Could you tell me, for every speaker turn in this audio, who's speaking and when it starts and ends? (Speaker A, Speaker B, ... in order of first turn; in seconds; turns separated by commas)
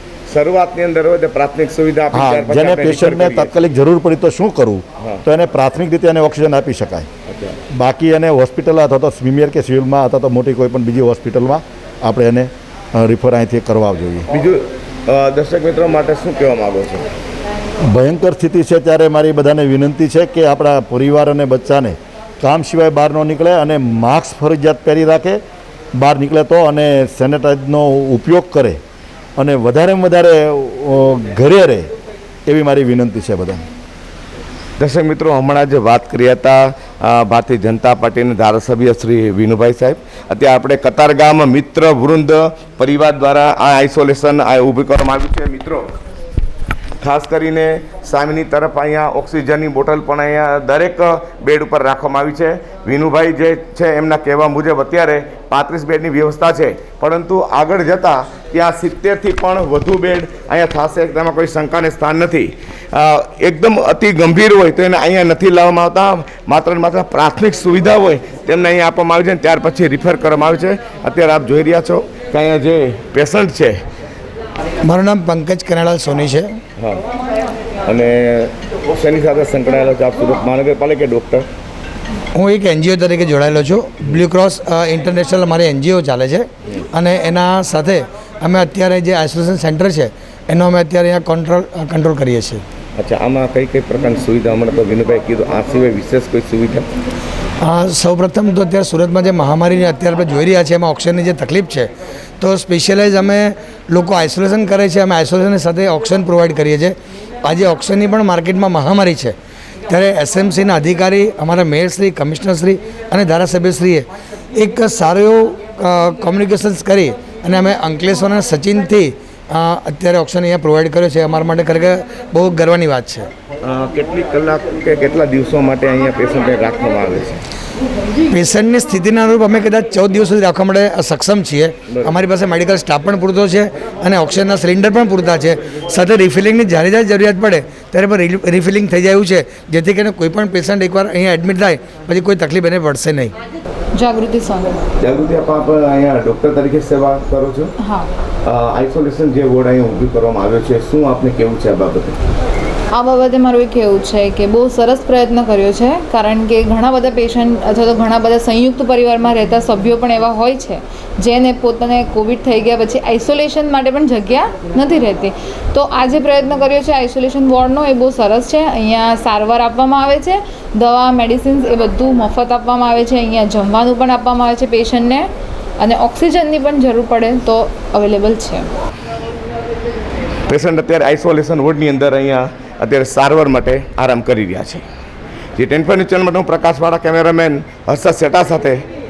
Speaker A: 0.3-3.5, Speaker B: 2.1-7.1, Speaker A: 7.3-7.6, Speaker B: 7.7-14.3, Speaker A: 14.3-17.1, Speaker B: 17.9-25.4, Speaker B: 25.9-28.8, Speaker B: 29.4-31.9, Speaker B: 32.5-33.6, Speaker A: 34.8-45.9, Speaker A: 47.0-73.8, Speaker C: 74.8-76.5, Speaker A: 76.8-77.0, Speaker A: 77.8-81.5, Speaker C: 82.3-92.6, Speaker A: 93.0-96.9, Speaker C: 97.6-109.3, Speaker C: 109.9-123.3, Speaker A: 123.6-127.4, Speaker C: 128.3-143.3, Speaker A: 131.9-132.2, Speaker D: 143.9-144.8, Speaker A: 145.0-147.7, Speaker D: 147.8-148.1, Speaker A: 148.4-152.2, Speaker D: 152.9-175.3, Speaker D: 175.8-178.7, Speaker A: 180.5-184.8, Speaker A: 185.6-188.8